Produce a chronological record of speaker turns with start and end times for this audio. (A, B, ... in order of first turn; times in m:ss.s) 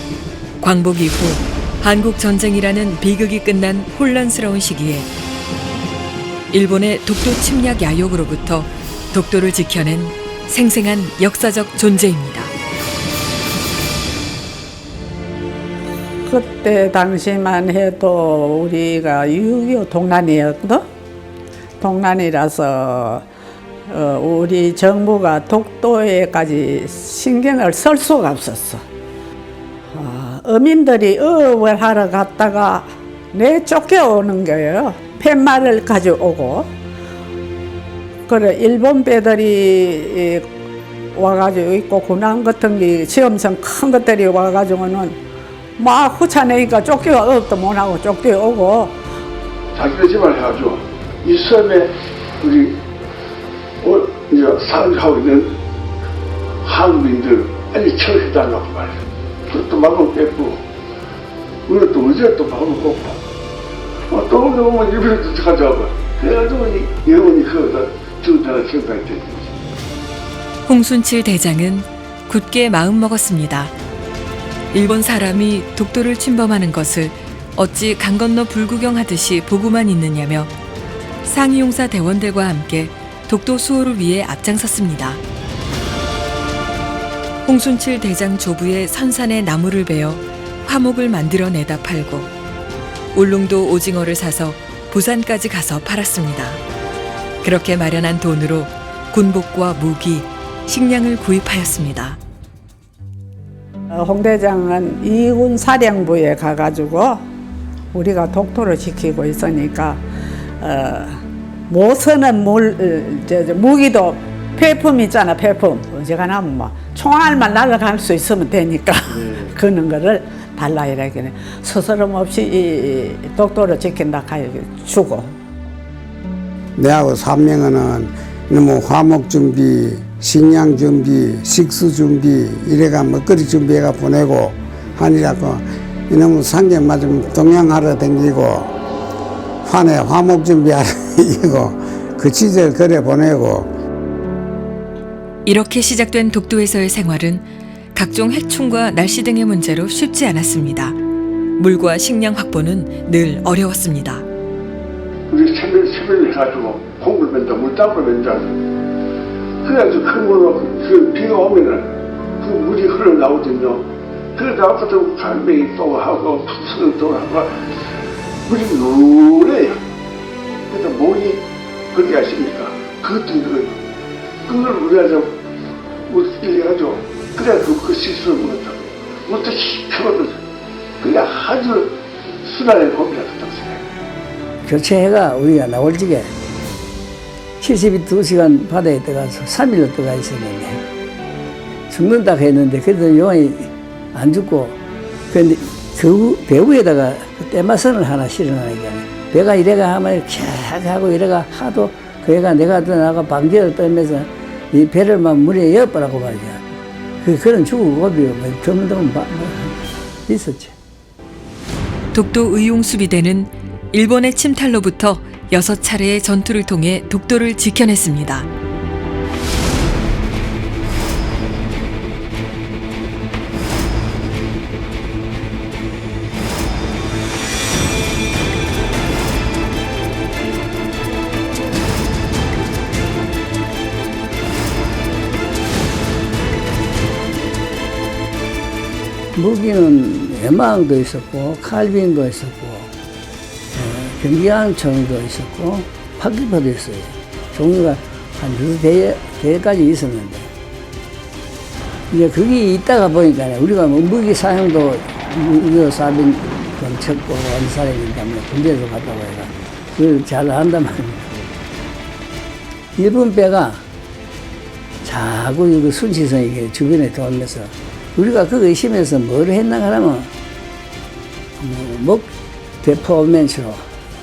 0:00.6-0:05.1 A
0:06.5-0:12.5 A
0:16.3-0:20.8 B
0:21.8-0:23.2 B
0:23.9-0:28.8 B
0:29.9-0:36.7 B
0:38.3-0:40.5 B
0:41.2-0:45.2 B
0:45.8-0:49.0 B
0:49.8-0:52.8 C
0:53.8-0:55.5 C
0:56.6-1:00.6 C
1:01.7-1:03.2 C
1:04.1-1:09.5 C
1:10.7-1:13.7 A
1:14.7-1:20.5 A
1:21.2-1:25.2 A
1:27.4-1:32.3 A
1:33.1-1:36.6 A
1:37.4-1:42.2 A
1:43.9-1:47.2 B
1:47.9-1:50.0 B
1:50.6-2:05.3 B
2:06.8-2:18.7 D
2:19.6-2:23.7 D
2:25.4-2:31.0 A
2:31.6-2:34.3 A
2:35.3-2:38.6 C
2:39.6-2:47.6 C
2:48.4-2:49.8 C
2:50.7-2:51.4 C
2:51.9-2:53.8 C
2:54.5-2:55.3 C
2:56.1-3:00.4 C
3:01.0-3:01.9 C
3:02.4-3:03.8 C
3:04.6-3:06.3 E
3:07.6-3:10.8 E
3:11.9-3:14.8 E
3:15.3-3:26.6 E
3:27.2-3:30.8 E
3:32.1-3:38.5 A
3:59.4-4:02.9 E
4:03.7-4:10.5 E
4:12.1-4:21.5 E
4:23.0-4:23.8 E
4:25.0-4:30.3 E
4:31.6-4:33.8 E